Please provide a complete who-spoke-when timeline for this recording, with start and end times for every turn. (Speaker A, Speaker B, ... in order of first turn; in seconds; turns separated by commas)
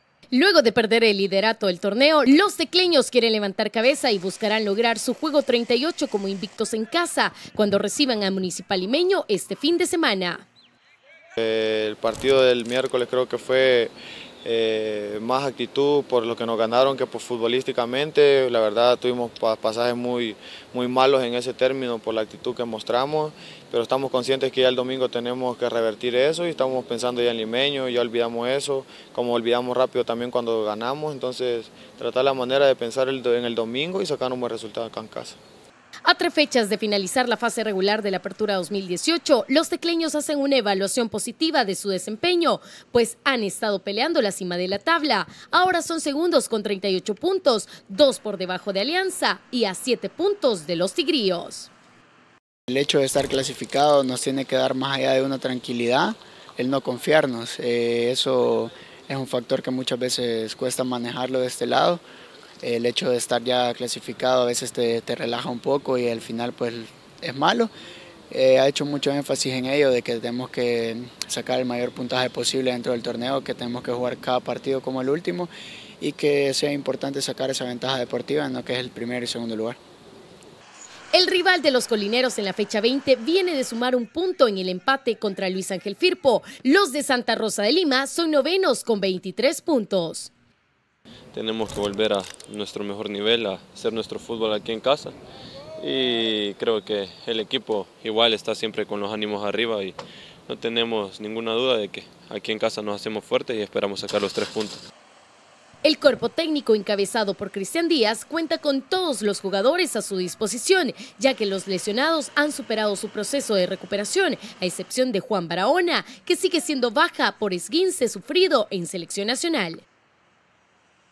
Speaker A: 0.3-10.5, Speaker B: 11.4-13.9, Speaker B: 14.4-35.4, Speaker A: 36.0-51.7, Speaker C: 52.7-62.0, Speaker C: 62.6-67.7, Speaker C: 68.3-79.8, Speaker A: 81.1-90.3, Speaker D: 91.3-95.2, Speaker D: 95.8-100.0, Speaker D: 100.5-104.8, Speaker A: 105.8-119.8